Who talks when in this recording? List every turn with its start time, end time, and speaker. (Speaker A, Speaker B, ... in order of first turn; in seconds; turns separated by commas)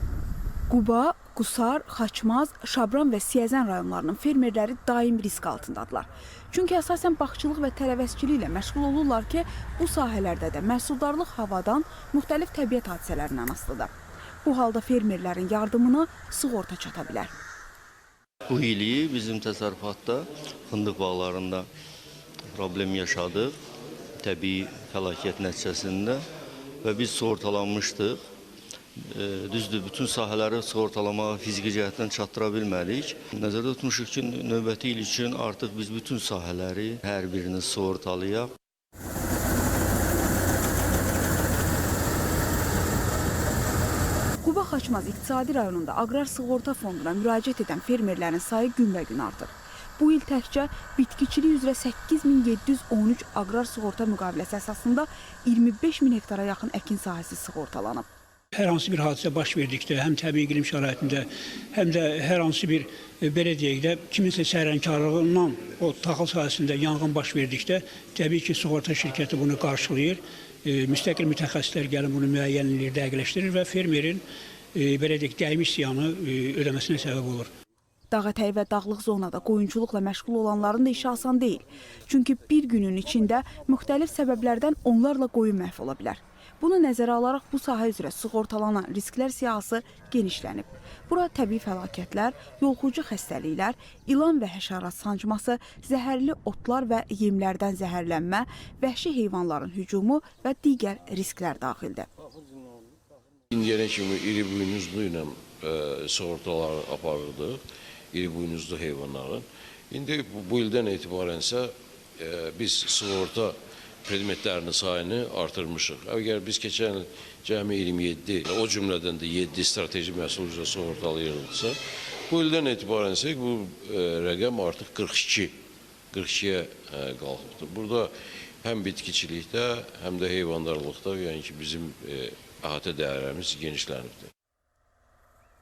Speaker A: 0.7-13.9, Speaker A: 14.4-17.3, Speaker B: 18.5-21.7, Speaker B: 22.5-23.5, Speaker B: 24.2-26.2, Speaker B: 26.8-28.2, Speaker B: 29.1-38.5, Speaker A: 44.4-58.1, Speaker C: 58.5-77.5, Speaker A: 78.1-102.1, Speaker D: 103.5-107.6, Speaker D: 108.1-121.8, Speaker D: 122.3-125.5, Speaker D: 126.1-128.1, Speaker D: 128.6-134.3